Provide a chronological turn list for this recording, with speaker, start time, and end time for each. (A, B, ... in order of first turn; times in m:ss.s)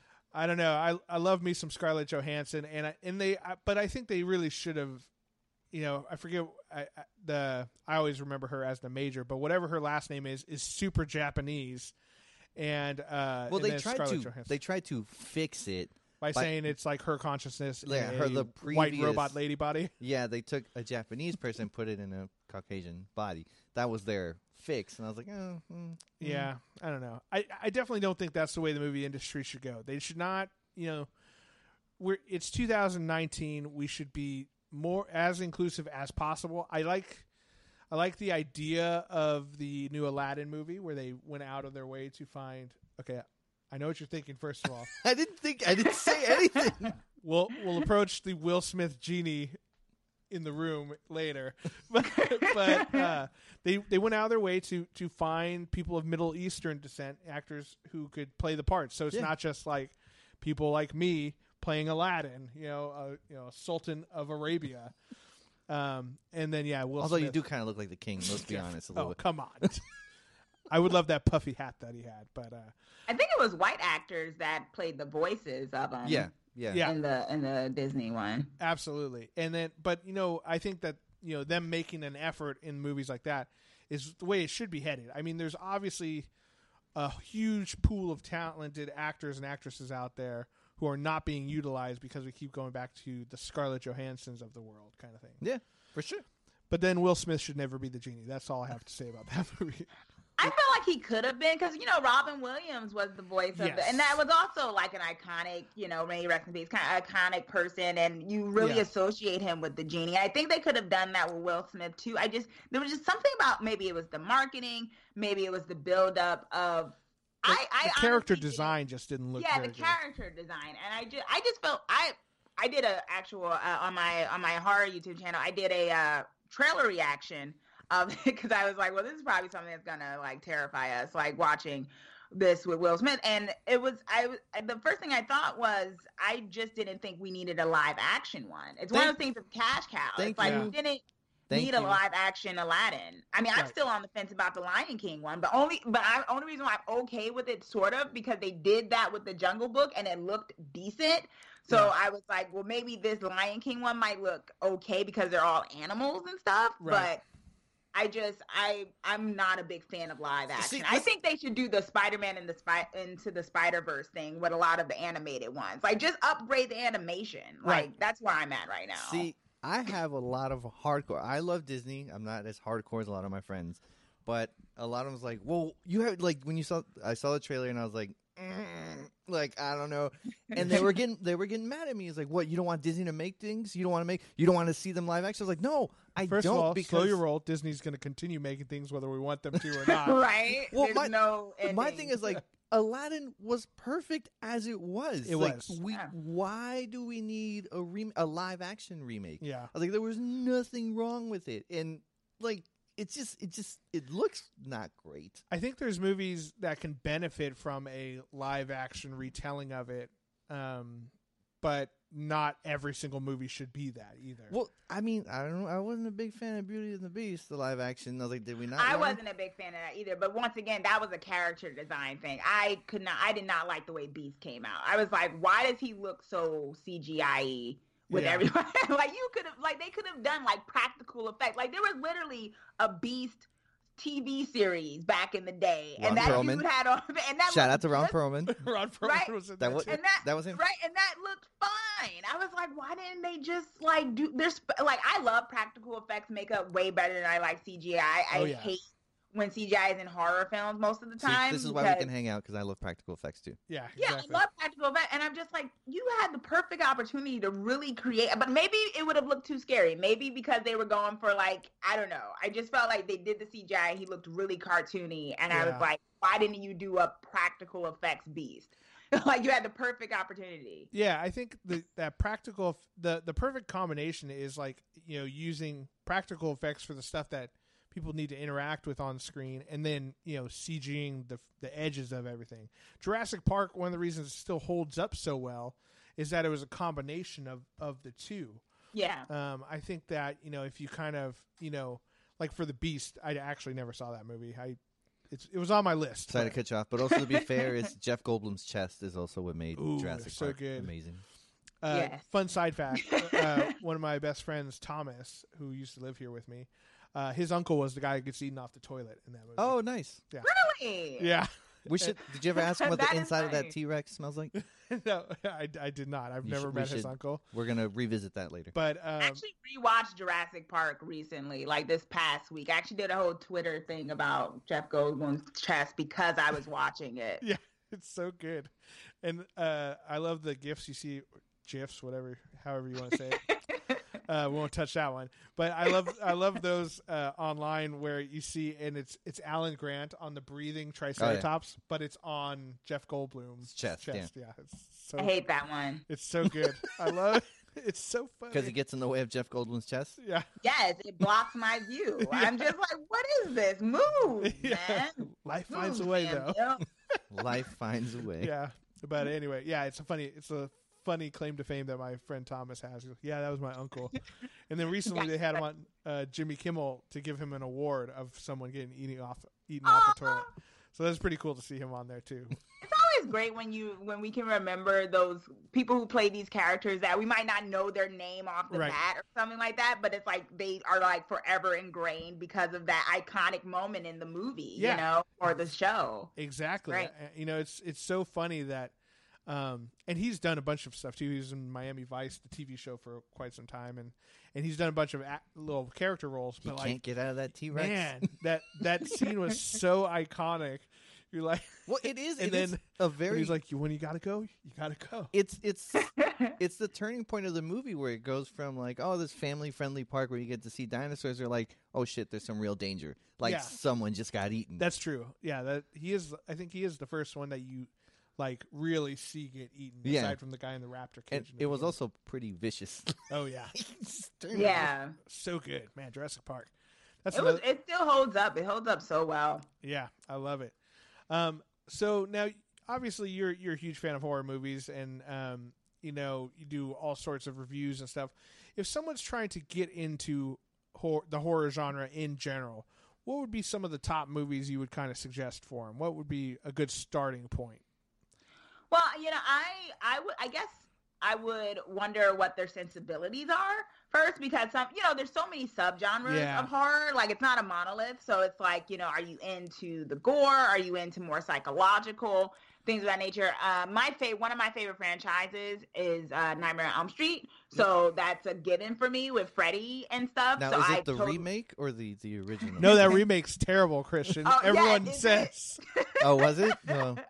0:00.3-0:05.1 A
0:05.7-0:11.9 A
0:12.6-0:14.5 A
0:13.5-0:16.5 B
0:16.2-0:19.9 A
0:17.8-0:19.4 B
0:20.0-0:26.5 B
0:26.2-0:31.1 A
0:32.0-0:37.3 A
0:37.9-0:45.0 A
0:44.9-0:47.0 B
0:46.0-0:46.7 C
0:47.2-0:49.6 A
0:50.3-1:04.9 A
0:52.2-0:53.1 C
1:05.7-1:07.4 A
1:07.0-1:09.2 B
1:08.3-1:09.9 A
1:10.7-1:12.7 A
1:13.1-1:18.5 C
1:16.0-1:16.9 B
1:18.6-1:26.3 A
1:27.0-1:35.4 A
1:35.4-1:36.2 B
1:36.7-1:39.9 A
1:40.4-1:58.7 C
1:43.6-1:44.2 A
1:48.6-1:48.9 A
1:57.5-2:00.0 A
1:59.4-2:37.2 C
2:20.2-2:20.8 B
2:20.4-2:20.7 A
2:21.5-2:22.0 B
2:36.8-2:37.1 A
2:37.9-2:49.3 C
2:40.6-2:41.1 B
2:49.0-3:07.2 B
3:06.2-3:10.2 A
3:09.8-3:12.2 C
3:10.7-3:25.4 B
3:15.2-3:15.8 A
3:15.9-3:16.1 C
3:19.4-3:19.7 A
3:25.5-3:31.1 A
3:31.6-3:34.6 A
3:34.5-3:39.2 B
3:38.8-3:53.5 C
3:48.1-3:48.5 A
3:54.0-3:58.2 C
3:56.0-3:56.7 B
3:56.1-3:56.5 A
3:57.5-3:58.5 B
3:58.5-4:00.0 A
3:59.0-3:59.4 C
3:59.6-4:00.6 B
3:59.9-4:12.1 C
4:08.3-4:08.7 A
4:11.2-4:13.6 B
4:13.7-4:14.4 A
4:14.0-4:30.9 C
4:25.5-4:25.9 A
4:30.9-4:48.6 A
4:48.9-4:49.3 C
4:49.3-4:54.8 A
4:55.3-4:56.6 A
4:56.3-5:01.2 B
4:57.1-4:57.7 C
4:59.8-5:00.9 A
5:01.8-5:09.8 A
5:01.9-5:02.2 C
5:03.0-5:03.8 C
5:09.6-5:10.2 B
5:10.4-5:11.3 C
5:11.2-5:12.2 A
5:11.9-5:14.5 B
5:12.5-5:13.7 C
5:14.6-5:17.4 A
5:16.4-5:18.7 B
5:18.7-5:19.4 A
5:19.2-5:27.4 C
5:27.4-5:28.7 A
5:29.2-5:33.6 A
5:33.1-5:34.0 C
5:34.2-5:45.3 A
5:41.2-5:41.5 B
5:43.6-5:44.3 B
5:45.2-5:46.9 C
5:46.1-5:48.7 A
5:48.5-5:50.2 B
5:50.2-5:50.5 A
5:50.6-5:56.8 C
5:52.2-5:52.7 A
5:54.4-5:56.6 A
5:57.3-5:58.5 B
5:58.4-6:04.2 A
6:04.7-6:12.6 A
6:05.1-6:05.6 C
6:09.8-6:10.5 C
6:12.8-6:26.3 C
6:18.7-6:19.0 A
6:24.8-6:25.1 A
6:26.4-6:28.9 A
6:29.5-6:37.0 A
6:36.6-6:38.1 B
6:37.7-6:45.3 A
6:41.9-6:43.6 B
6:45.3-6:54.8 B
6:46.0-6:46.5 C
6:53.4-6:53.8 A
6:54.8-7:01.9 A
7:00.0-7:00.4 B
7:01.3-7:04.9 B
7:03.3-7:03.8 A
7:04.5-7:05.2 C
7:05.2-7:06.7 A
7:07.2-7:07.6 A
7:07.3-7:09.7 C
7:09.8-7:10.8 A
7:11.3-7:27.8 A
7:28.9-7:51.4 C
7:36.2-7:36.7 A
7:50.6-7:53.2 B
7:52.8-7:55.8 A
7:52.8-7:53.1 C
7:54.4-7:57.0 C
7:56.2-7:57.2 B